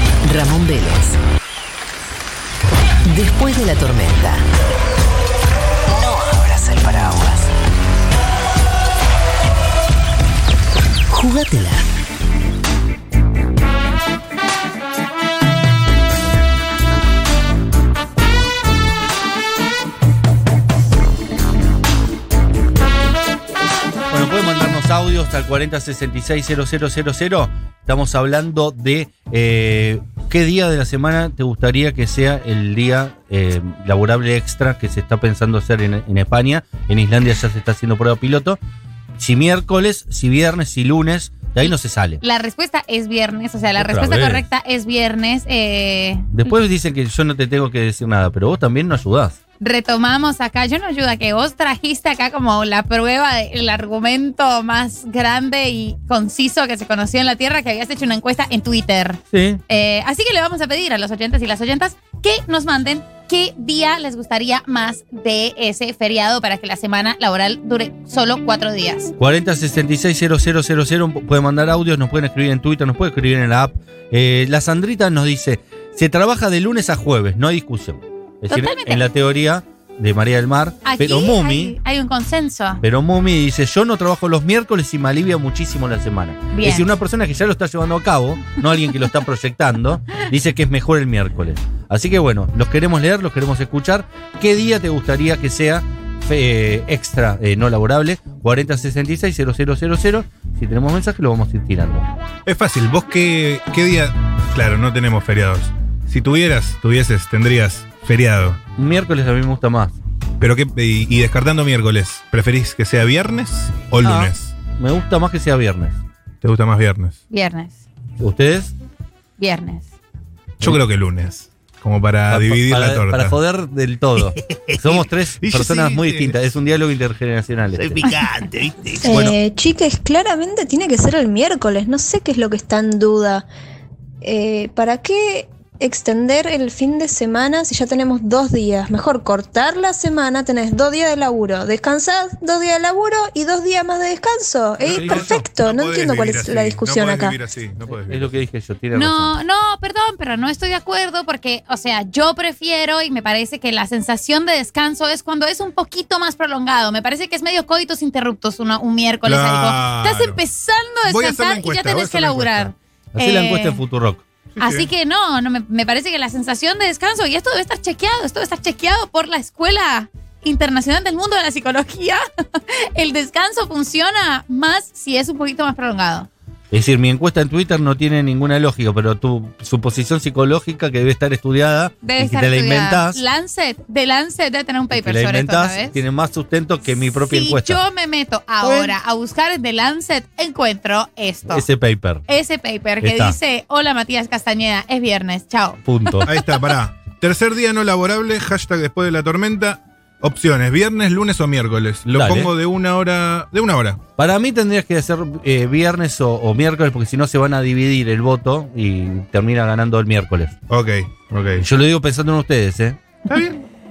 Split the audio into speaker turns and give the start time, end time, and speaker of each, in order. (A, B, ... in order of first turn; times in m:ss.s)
0:00.2-0:01.2 A
0:03.0-0:04.4 A
0:05.9-0:07.5 A
0:11.1-0:11.8 A
0:24.1-0:38.6 B
0:39.2-0:42.2 B
0:41.6-0:46.6 C
0:43.8-0:44.4 B
0:46.3-0:49.4 B
0:49.6-1:09.1 C
0:59.3-0:59.6 B
1:09.2-1:21.8 B
1:18.5-1:19.0 C
1:20.8-1:22.8 C
1:22.8-1:42.1 B
1:26.5-1:26.9 C
1:42.4-1:48.6 D
1:48.7-1:50.0 B
1:50.4-1:54.5 D
1:54.0-1:56.0 B
1:56.4-1:57.2 D
1:57.3-1:57.8 C
1:58.2-1:58.7 B
1:59.4-1:59.8 C
2:00.6-2:03.4 D
2:02.3-2:08.1 B
2:04.2-2:06.4 D
2:07.8-2:09.1 D
2:09.0-2:09.4 B
2:09.0-2:13.5 E
2:14.2-2:27.4 E
2:24.8-2:28.3 D
2:24.8-2:25.4 B
2:28.0-2:29.3 B
2:28.9-2:43.8 C
2:39.2-2:40.4 D
2:41.1-2:42.7 D
2:43.1-2:44.2 B
2:44.5-2:44.9 D
2:44.6-2:56.3 C
2:56.7-3:03.2 B
3:02.0-3:06.0 C
3:04.9-3:07.8 B
3:06.9-3:11.6 C
3:08.6-3:08.9 B
3:11.4-3:12.2 B
3:12.3-3:16.2 C
3:13.0-3:13.4 B
3:15.8-3:16.3 B
3:16.2-3:24.0 D
3:22.1-3:22.5 B
3:24.2-3:30.6 B
3:30.7-3:31.6 D
3:31.6-3:33.0 B
3:33.3-3:33.6 D